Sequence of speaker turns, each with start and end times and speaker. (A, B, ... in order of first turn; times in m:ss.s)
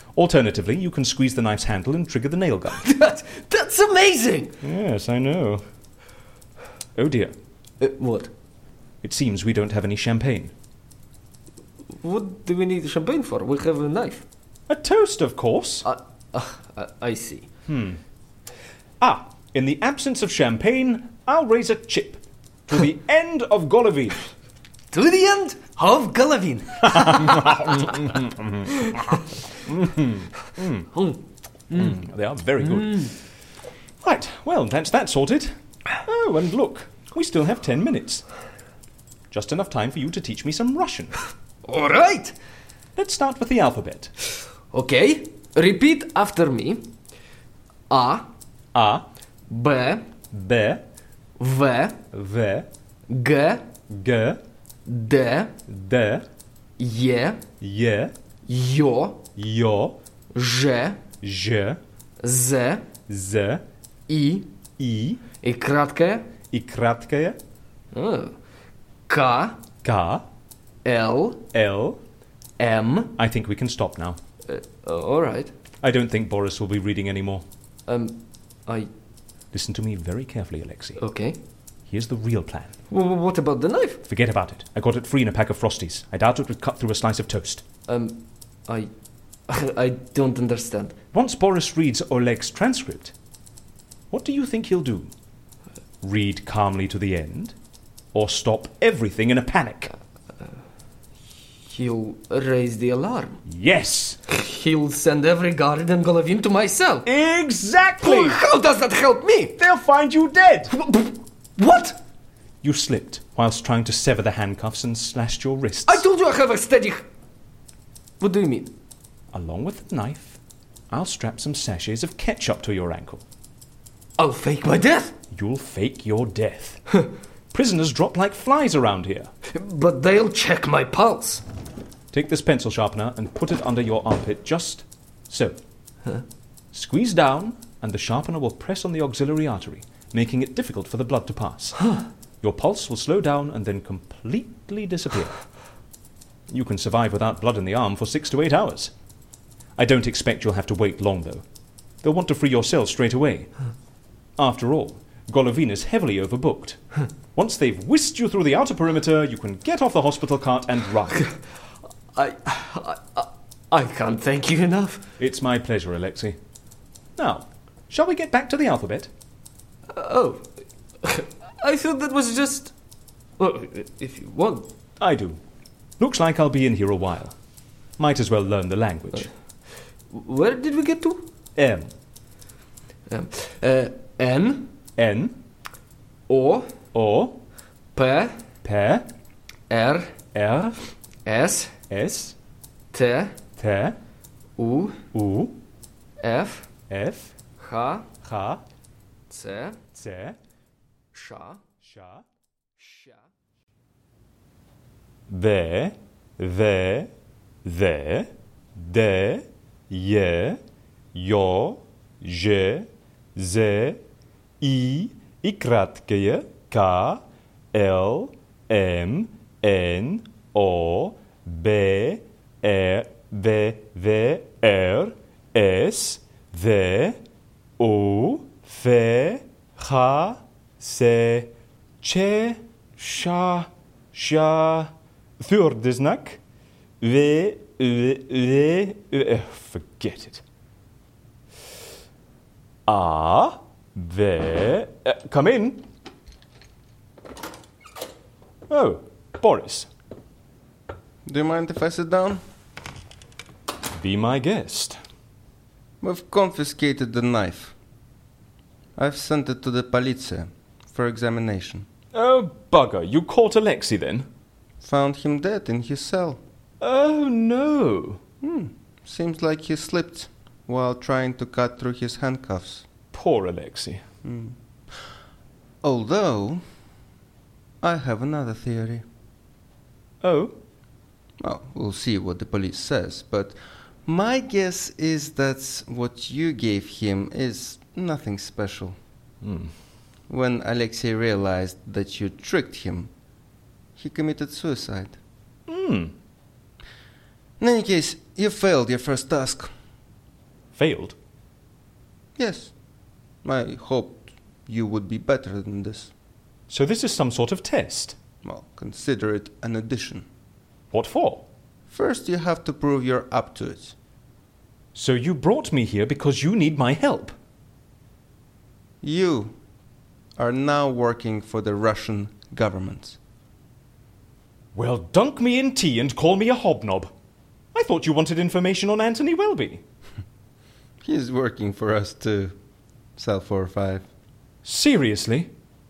0:00.2-0:02.9 A
0:02.8-0:04.6 B
0:04.6-0:05.6 A
0:07.0-0:07.4 A
0:07.8-0:08.3 B
0:09.0-0:10.5 A
0:12.0-0:14.2 B
0:14.7-0:15.9 A
0:15.8-0:17.5 B
0:17.7-0:18.0 A
0:19.0-0:24.2 A
0:24.9-0:28.0 B
0:27.0-0:28.5 A
0:28.7-0:29.2 B
0:29.7-0:30.9 A
0:30.9-0:31.2 B
0:31.7-0:32.0 B
0:31.7-0:33.2 A
0:32.6-0:33.1 B
0:34.0-0:38.3 A
0:39.3-0:41.1 A
0:41.6-0:42.4 B
0:43.0-0:44.1 A
0:44.7-0:46.9 B
0:47.9-0:48.3 B
0:48.8-0:49.0 A
0:49.5-0:50.2 B
0:50.3-0:50.8 A
0:51.4-0:52.0 B
0:52.1-0:52.7 A
0:53.1-0:53.7 B
0:53.9-0:54.4 A
0:54.9-0:55.6 B
0:55.7-0:56.3 A
0:56.8-0:57.4 B
0:57.6-0:58.1 A
0:58.5-0:59.3 B
0:59.4-1:00.0 A
1:00.3-1:01.0 B
1:01.2-1:01.8 A
1:02.2-1:02.9 B
1:03.1-1:03.6 A
1:04.1-1:04.5 B
1:04.8-1:05.2 A
1:05.4-1:06.3 B
1:06.5-1:07.4 A
1:07.9-1:08.4 B
1:09.1-1:09.6 B
1:09.8-1:10.2 A
1:10.8-1:11.5 B
1:11.5-1:12.0 A
1:12.6-1:13.1 B
1:13.2-1:14.2 A
1:14.5-1:15.5 B
1:15.8-1:17.4 A
1:17.9-1:18.9 B
1:19.5-1:21.0 A
1:21.0-1:21.4 B
1:21.9-1:22.8 A
1:22.9-1:24.0 B
1:24.1-1:27.6 A
1:27.9-1:28.9 B
1:29.5-1:31.0 B
1:31.1-1:33.1 A
1:34.1-1:35.1 A
1:36.0-1:37.6 A
1:38.1-1:39.9 A
1:41.6-1:43.4 B
1:43.5-1:44.2 A
1:44.3-1:47.1 B
1:47.1-1:48.4 A
1:48.0-1:49.6 B
1:49.6-1:50.7 A
1:50.7-1:52.0 B
1:52.6-1:56.0 A
1:55.9-1:57.0 B
1:58.2-1:58.7 B
1:59.3-2:00.4 A
2:00.9-2:03.2 A
2:04.2-2:05.2 B
2:05.3-2:06.8 A
2:07.5-2:09.3 A
2:09.5-2:11.4 B
2:12.1-2:15.6 A
2:16.7-2:21.9 A
2:22.4-2:25.5 A
2:26.5-2:28.9 A
2:29.8-2:31.4 A
2:32.0-2:33.5 A
2:34.4-2:36.8 A
2:37.4-2:41.3 A
2:41.1-2:41.4 B
2:42.1-2:45.0 B
2:45.2-2:46.4 A
2:47.2-2:49.1 A
2:49.9-2:50.5 B
2:51.0-2:52.7 B
2:53.4-2:54.7 B
2:55.0-2:55.4 A
2:56.0-2:57.4 A
2:58.0-2:59.3 A
3:00.1-3:01.3 B
3:01.6-3:01.9 A
3:03.1-3:04.7 B
3:05.0-3:05.4 A
3:06.3-3:06.8 B
3:06.9-3:07.4 A
3:08.0-3:08.5 B
3:08.6-3:09.1 A
3:09.7-3:10.2 B
3:10.3-3:10.8 A
3:11.3-3:11.8 B
3:11.9-3:12.4 A
3:12.9-3:13.4 B
3:13.6-3:14.0 A
3:14.6-3:15.0 B
3:15.1-3:15.6 A
3:16.2-3:16.7 B
3:16.9-3:17.4 A
3:17.6-3:18.1 B
3:18.2-3:18.6 A
3:19.3-3:19.8 B
3:20.0-3:20.4 A
3:21.1-3:21.6 B
3:21.8-3:22.2 A
3:22.8-3:23.3 B
3:25.3-3:27.1 A
3:27.6-3:30.6 A
3:31.1-3:34.0 A
3:34.6-3:37.2 A
3:37.7-3:47.2 A
3:47.8-3:51.5 A
3:52.0-3:56.4 A
3:57.0-4:00.4 A
4:02.9-4:05.8 A
4:08.7-4:09.9 A
4:11.2-4:12.4 C
4:14.0-4:15.0 A
4:16.0-4:17.8 C
4:19.0-4:21.9 C
4:22.1-4:24.3 A
4:24.8-4:26.4 C
4:26.8-4:28.2 A
4:28.4-4:32.9 C
4:33.1-4:34.0 A
4:34.2-4:34.6 C
4:35.8-4:36.6 C
4:37.8-4:39.0 C
4:40.2-4:40.6 A
4:41.4-4:49.0 C
4:49.4-4:49.7 A
4:50.3-4:53.1 C
4:54.0-4:55.2 C
4:55.7-4:56.1 A
4:57.6-4:59.7 C
5:00.8-5:01.2 A
5:02.4-5:02.7 C
5:03.4-5:06.1 C
5:06.7-5:08.2 A
5:08.4-5:10.3 C
5:10.9-5:11.5 A
5:11.9-5:14.0 C
5:15.0-5:17.4 A
5:19.0-5:19.6 C
5:20.4-5:23.2 C
5:24.8-5:27.1 A
5:27.7-5:29.8 A
5:31.0-5:32.6 C
5:33.2-5:34.1 C
5:34.6-5:35.5 A